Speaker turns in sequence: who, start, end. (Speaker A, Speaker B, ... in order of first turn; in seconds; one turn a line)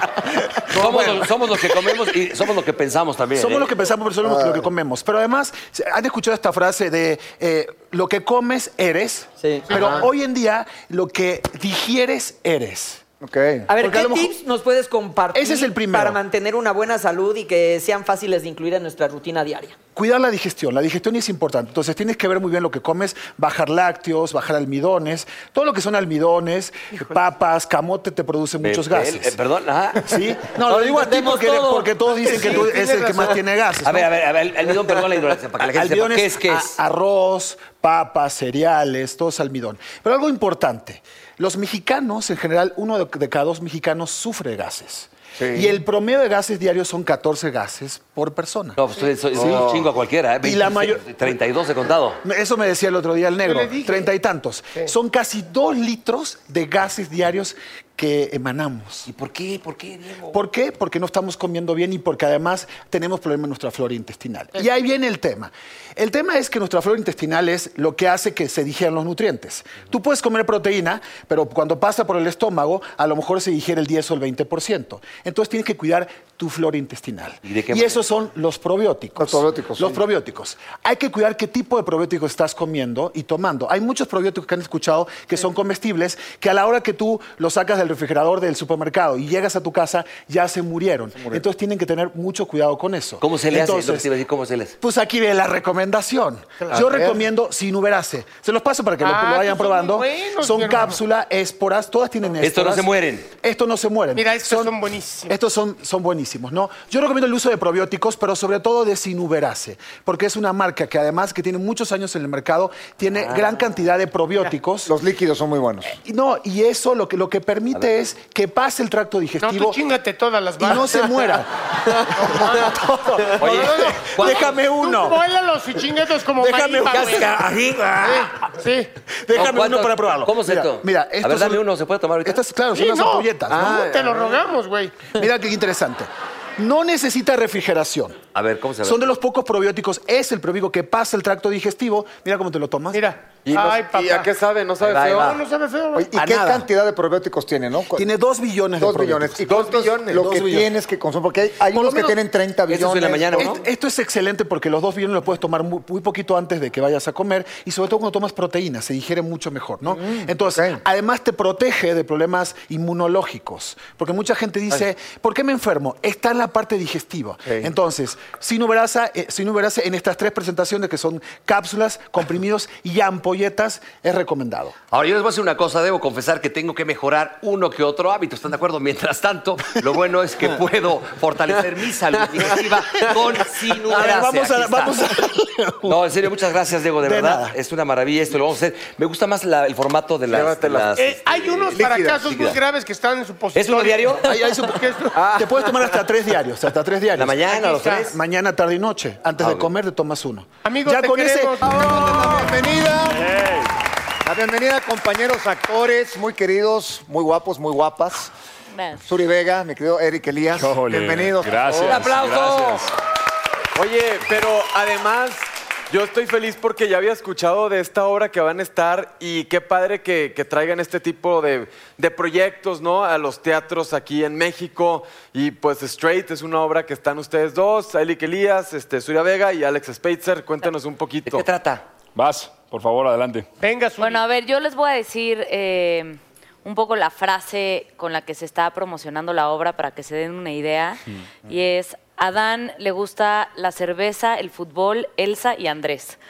Speaker A: 0.7-3.7
Speaker B: 0.7-1.3
Speaker B: 3.3-13.0
Speaker C: 4.2-4.7
Speaker D: 9.4-9.7
Speaker C: 13.2-13.7
Speaker D: 13.7-19.7
Speaker B: 13.8-14.3
Speaker B: 15.3-16.2
Speaker B: 19.9-29.4
Speaker A: 28.6-30.2
Speaker B: 30.0-34.1
Speaker D: 30.7-31.9
Speaker E: 32.1-33.4
Speaker A: 33.8-36.8
Speaker B: 35.6-48.8
Speaker C: 45.4-45.7
Speaker A: 48.8-52.2
Speaker B: 49.3-49.7
Speaker C: 49.3-49.8
Speaker B: 50.4-51.1
Speaker B: 52.2-59.1
Speaker E: 53.4-54.1
Speaker A: 59.0-60.4
Speaker B: 60.3-94.1
Speaker A: 77.4-78.0
Speaker C: 79.2-80.0
Speaker C: 91.1-91.4
Speaker A: 93.2-94.8
Speaker B: 94.8-104.7
Speaker E: 96.6-97.0
Speaker C: 96.8-97.0
Speaker E: 99.0-101.0
Speaker A: 102.4-103.3
Speaker E: 104.1-105.3
Speaker B: 105.3-114.9
Speaker A: 113.1-113.6
Speaker C: 114.8-115.9
Speaker B: 115.9-119.8
Speaker E: 119.4-121.4
Speaker B: 120.6-121.5
Speaker E: 122.2-122.8
Speaker B: 122.2-125.2
Speaker A: 123.4-124.6
Speaker E: 123.4-127.3
Speaker B: 126.4-128.3
Speaker A: 126.8-128.3
Speaker E: 128.0-128.9
Speaker B: 129.2-131.6
Speaker A: 129.3-132.4
Speaker B: 132.2-133.9
Speaker E: 132.7-135.0
Speaker F: 133.5-134.4
Speaker B: 135.1-138.2
Speaker A: 138.3-139.0
Speaker B: 138.8-143.0
Speaker E: 142.9-144.3
Speaker F: 143.4-145.4
Speaker A: 144.8-145.4
Speaker E: 145.1-146.1
Speaker C: 145.9-148.1
Speaker B: 146.1-146.7
Speaker B: 147.9-150.7
Speaker C: 148.8-153.5
Speaker F: 149.4-150.3
Speaker B: 151.7-152.2
Speaker A: 152.7-153.6
Speaker B: 153.3-174.7
Speaker C: 159.9-160.8
Speaker A: 174.9-185.1
Speaker B: 183.7-186.0
Speaker A: 185.8-192.6
Speaker B: 187.0-187.5
Speaker F: 190.3-190.9
Speaker E: 191.0-195.2
Speaker C: 191.8-192.2
Speaker A: 193.5-194.3
Speaker B: 194.2-197.4
Speaker F: 195.1-195.9
Speaker A: 197.1-198.2
Speaker E: 197.4-198.2
Speaker B: 198.1-201.6
Speaker A: 199.4-199.7
Speaker E: 200.6-202.5
Speaker C: 201.6-203.3
Speaker G: 203.0-203.7
Speaker C: 204.2-208.3
Speaker H: 208.7-209.1
Speaker C: 209.0-211.9
Speaker G: 210.5-212.9
Speaker A: 211.7-212.9
Speaker F: 213.7-231.4
Speaker A: 231.3-231.8
Speaker G: 232.1-233.5
Speaker E: 233.6-234.2
Speaker H: 234.0-246.2